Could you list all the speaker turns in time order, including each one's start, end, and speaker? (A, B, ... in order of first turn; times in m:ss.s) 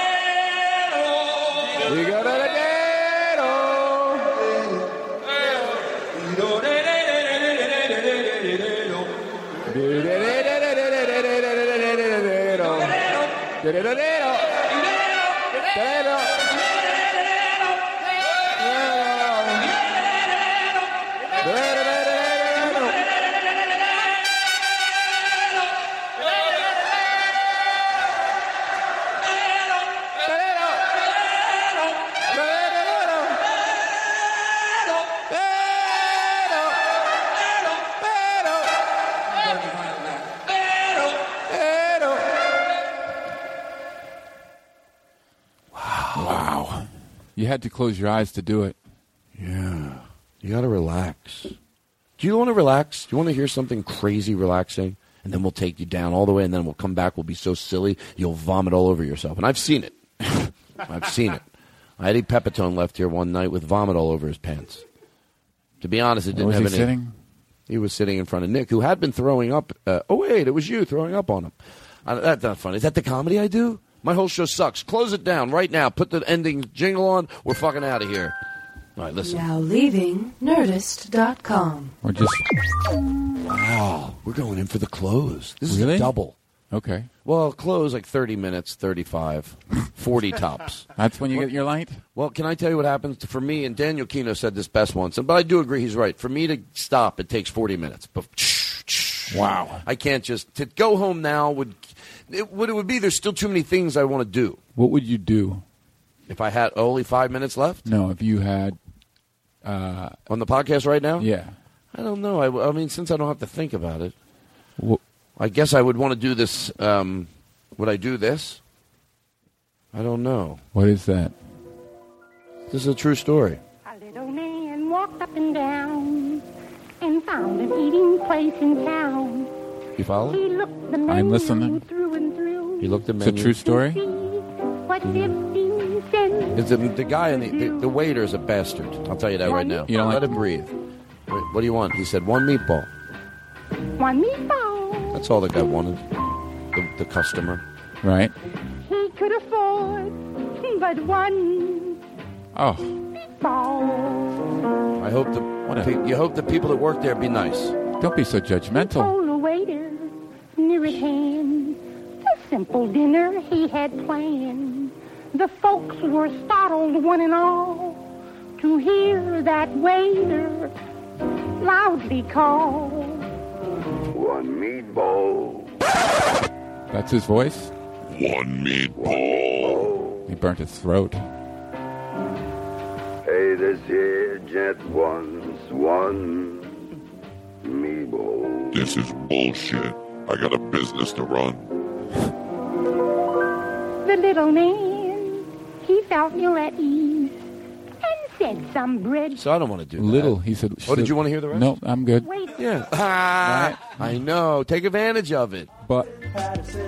0:01.8-0:03.8 A
0:09.7-0:12.9 A
0:13.6-0:14.4 A
0:15.7-0:16.3 A
0:18.9-0:19.6 A
0:21.5-0:22.9 A
0:45.7-0:46.4 B
0:46.2-0:48.8 A
0:49.4-0:51.6 B
0:52.2-1:00.0 B
1:00.8-1:01.4 B
1:02.0-1:04.8 B
1:05.8-1:06.9 B
1:06.3-1:07.1 A
1:07.7-1:11.5 B
1:12.1-1:18.4 B
1:19.0-1:19.4 B
1:19.2-1:22.0 C
1:22.0-1:22.4 A
1:23.4-1:26.4 B
1:25.7-1:26.1 A
1:26.7-1:27.1 A
1:27.2-1:31.5 B
1:31.0-1:32.0 A
1:32.1-1:44.6 B
1:39.3-1:39.8 A
1:44.7-1:45.6 A
1:46.3-1:47.8 B
1:47.8-1:48.8 A
1:49.6-1:50.2 A
1:50.3-1:51.3 B
1:51.2-1:51.6 A
1:51.9-1:54.1 B
1:55.4-1:58.6 B
1:59.9-2:00.6 B
2:00.7-2:01.4 A
2:02.7-2:03.6 B
2:03.8-2:06.4 D
2:07.0-2:09.5 D
2:10.0-2:10.4 B
2:10.3-2:13.0 D
2:11.1-2:11.8 A
2:12.8-2:13.6 B
2:13.2-2:14.0 A
2:13.6-2:16.6 D
2:16.5-2:20.7 B
2:17.3-2:17.9 D
2:19.4-2:19.9 D
2:19.9-2:20.4 A
2:21.3-2:22.9 B
2:24.0-2:25.2 D
2:25.1-2:26.0 B
2:26.7-2:27.6 B
2:28.0-2:28.3 A
2:28.8-2:32.0 D
2:32.5-2:33.0 A
2:33.4-2:34.5 D
2:35.0-2:37.8 B
2:35.7-2:35.9 A
2:38.0-2:39.1 A
2:38.8-2:48.0 D
2:48.6-2:50.7 D
2:51.6-2:53.3 D
2:54.1-2:55.7 E
2:56.9-2:57.7 A
2:58.1-2:59.9 F
2:59.0-3:00.2 E
3:00.3-3:01.2 A
3:03.3-3:06.7 E
3:07.6-3:08.8 E
3:08.7-3:11.7 F
3:14.0-3:17.4 D
3:18.0-3:19.4 D
3:19.3-3:21.7 B
3:20.0-3:22.3 A
3:22.2-3:22.6 D
3:22.6-3:25.7 B
3:23.4-3:24.2 A
3:25.8-3:26.1 A